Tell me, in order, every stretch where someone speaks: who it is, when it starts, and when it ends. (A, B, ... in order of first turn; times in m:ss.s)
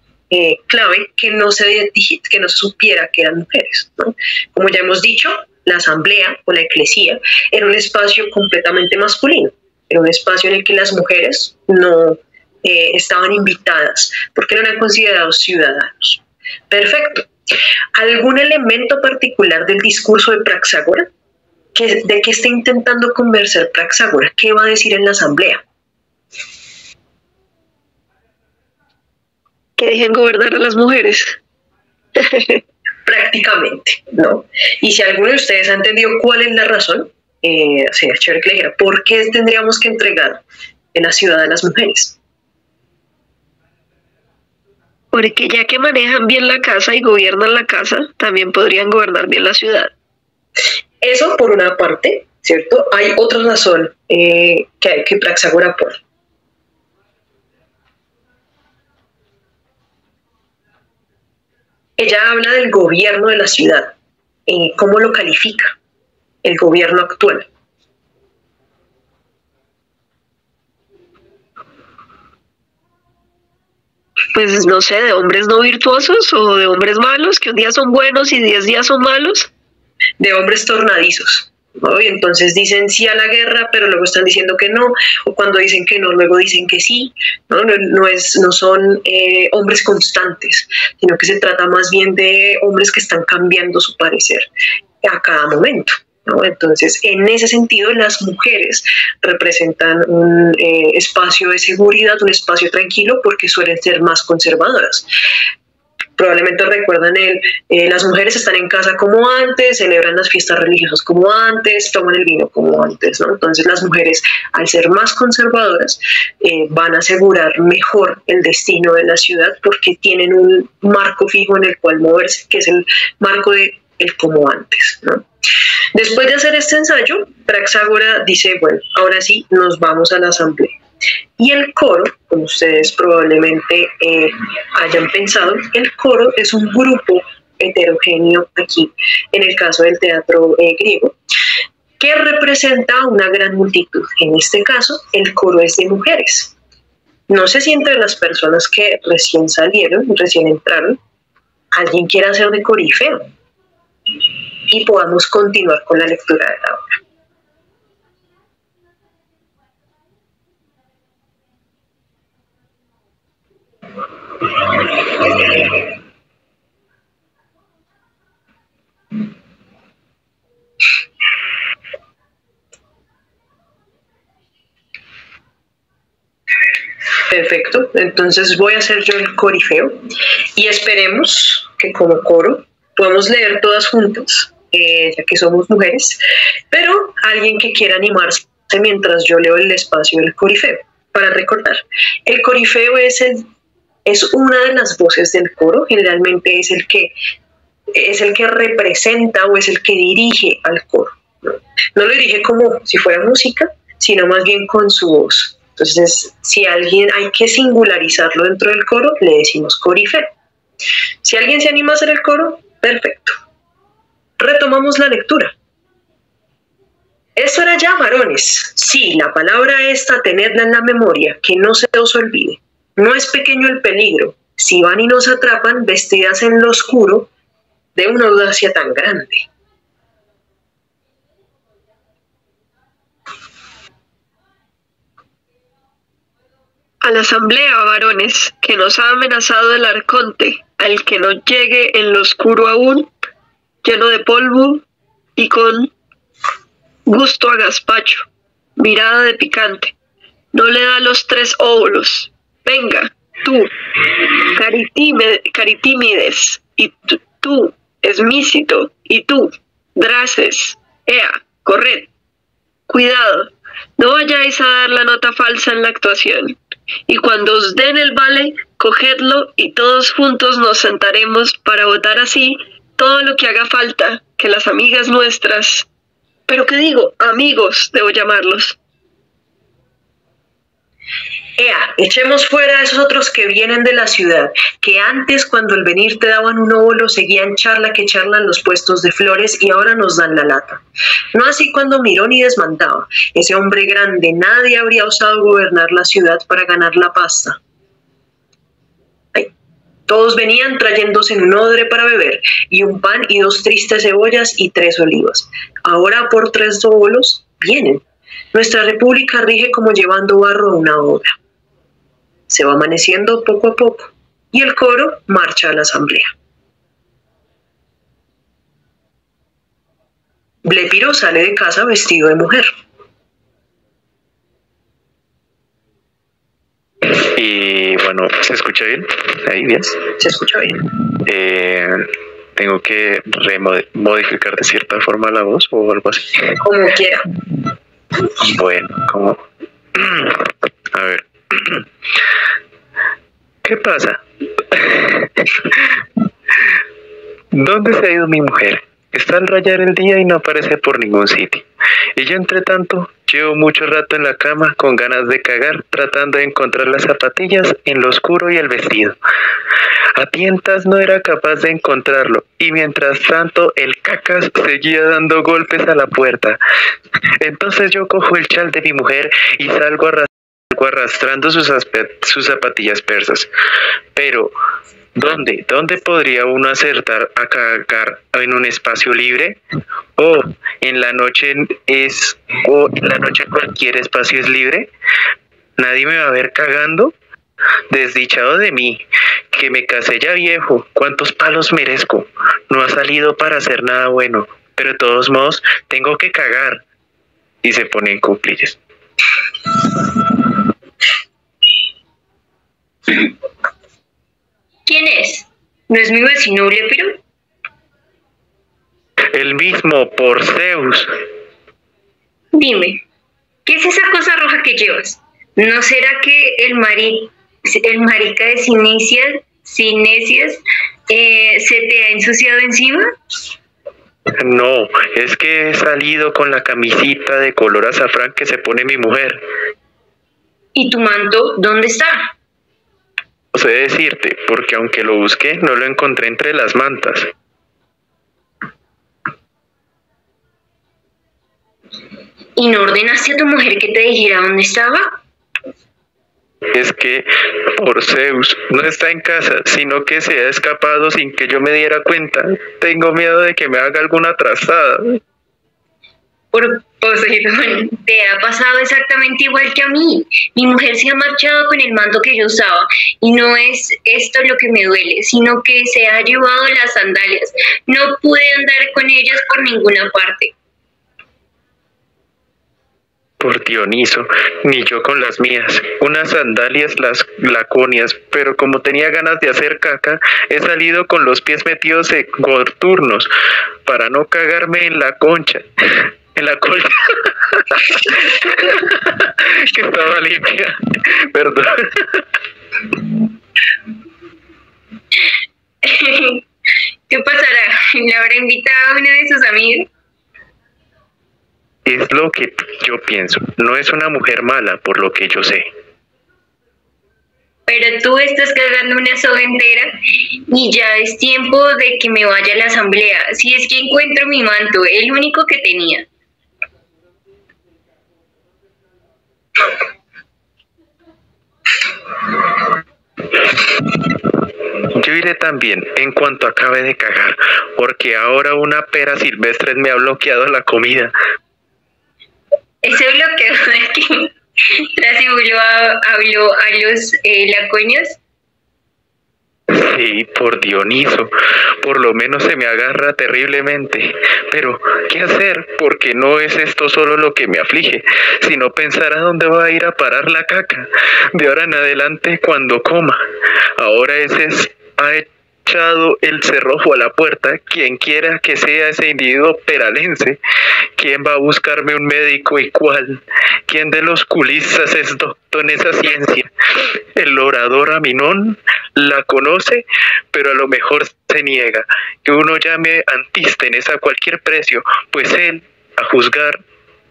0:00.3-0:17.3 A
0:17.9-0:21.1 A
0:21.7-0:25.6 A
0:29.8-0:31.4 B
0:32.2-0:32.6 B
0:33.0-0:40.4 A
0:40.9-0:42.2 A
0:45.1-0:49.9 B
0:51.0-0:56.0 A
1:02.0-1:03.9 A
1:04.5-1:05.8 A
1:06.4-1:07.5 A
1:14.3-1:19.5 B
1:20.2-1:34.5 A
1:35.0-1:45.1 A
1:46.2-2:05.2 A
2:05.9-2:10.8 A
2:11.4-2:21.2 A
2:22.0-2:26.6 A
2:27.3-2:31.0 A
2:31.7-2:33.3 A
2:34.7-2:37.0 A
2:57.3-3:00.0 A
3:00.5-3:13.5 A
3:14.0-3:17.1 A
3:17.9-3:30.3 A
3:31.2-3:33.4 A
3:34.4-3:35.5 A
3:37.4-3:47.3 A
3:47.9-3:49.4 A
3:57.0-4:03.1 B
4:03.8-4:04.8 B
4:05.4-4:05.9 B
4:07.1-4:09.9 B
4:10.5-4:13.7 B
4:14.5-4:22.1 B
4:22.9-4:35.9 B
4:36.5-4:38.8 B
4:41.6-4:57.6 A
5:00.1-5:11.4 A
5:12.5-5:16.3 A
5:20.6-5:22.7 A
5:27.0-5:30.0 C
5:30.2-5:30.8 A
5:31.2-5:36.5 C
5:36.6-5:37.2 A
5:38.4-5:39.4 C
5:39.9-5:41.9 C
5:43.6-5:46.0 C
5:47.5-5:59.2 C
6:00.1-6:06.6 C
6:07.4-6:13.5 C
6:14.1-6:14.6 C
6:15.2-6:19.6 C
6:20.2-6:24.9 C
6:25.8-6:27.1 C
6:27.9-6:36.8 C
6:37.6-6:38.8 C
6:44.8-6:47.2 D
6:49.3-6:51.1 C
6:52.5-6:53.0 D
6:53.6-7:03.1 D
7:04.4-7:09.4 C
7:10.7-7:12.3 D
7:13.5-7:17.3 C
7:22.6-7:25.2 D
7:26.7-7:35.2 C
7:36.5-7:50.5 D
7:53.4-8:03.3 C
8:03.8-8:12.2 C
8:15.8-8:16.4 D
8:17.1-8:19.9 D
8:21.8-8:25.7 C
8:27.7-8:36.1 D
8:44.9-8:51.1 C
8:52.8-8:58.2 D
8:59.7-9:13.2 C
9:13.8-9:20.4 C
9:21.0-9:36.6 C